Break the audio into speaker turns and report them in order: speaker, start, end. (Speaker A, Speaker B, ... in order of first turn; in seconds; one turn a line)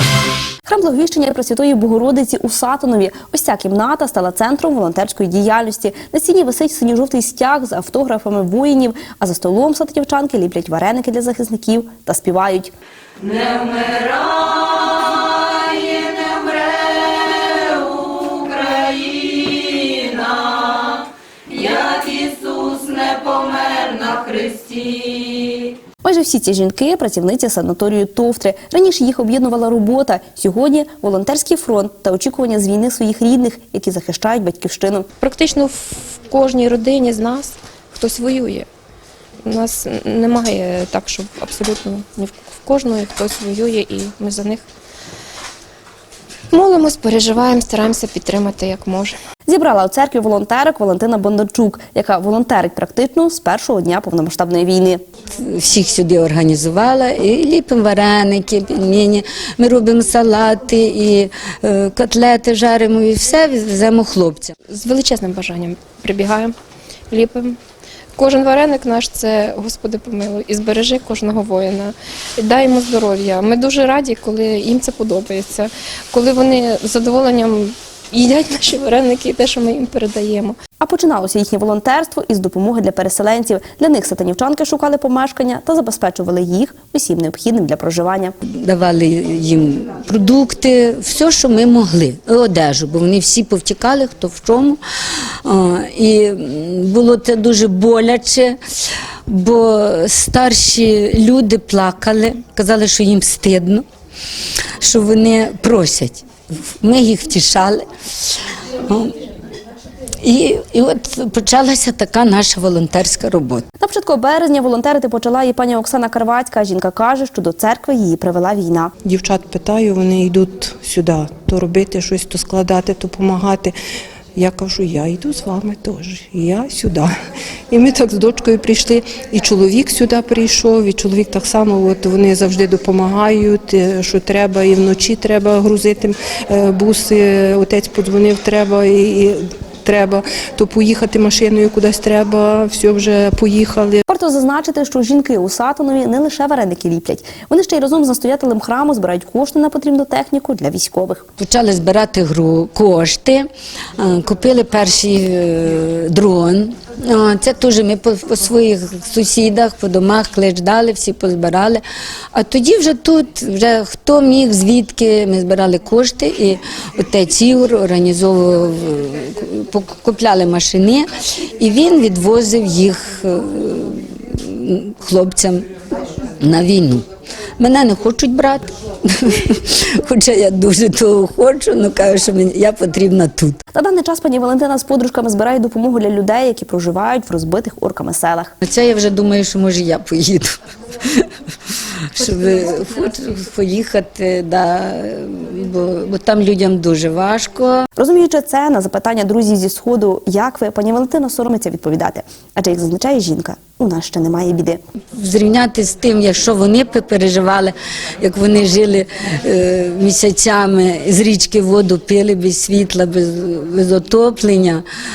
Speaker A: 0.7-12.7
Speaker B: 13.5-14.3
Speaker B: 15.8-16.7
Speaker B: 18.1-20.3
Speaker B: 21.5-25.2
Speaker A: 26.0-35.1
Speaker C: 35.2-38.7
Speaker C: 39.5-44.6
Speaker C: 46.5-49.2
Speaker A: 49.5-55.0
Speaker B: 55.4-64.5
Speaker C: 64.7-66.5
Speaker C: 67.1-67.6
Speaker C: 68.2-80.5
Speaker A: 80.8-88.3
Speaker B: 88.5-94.8
Speaker B: 95.5-98.6
Speaker B: 99.3-103.8
Speaker B: 104.8-108.3
Speaker B: 108.9-109.1
Speaker B: 110.2-113.7
Speaker A: 113.8-118.9
Speaker D: 119.0-123.7
Speaker D: 124.4-127.1
Speaker D: 127.7-144.0
Speaker A: 144.1-151.2
Speaker B: 151.4-153.5
Speaker B: 154.0-161.8
Speaker B: 162.3-171.1
Speaker B: 171.6-175.7
Speaker B: 176.4-177.1
Speaker B: 177.6-183.6
Speaker A: 183.7-188.5
Speaker B: 188.6-197.9
Speaker A: 198.0-204.8
Speaker B: 205.2-214.8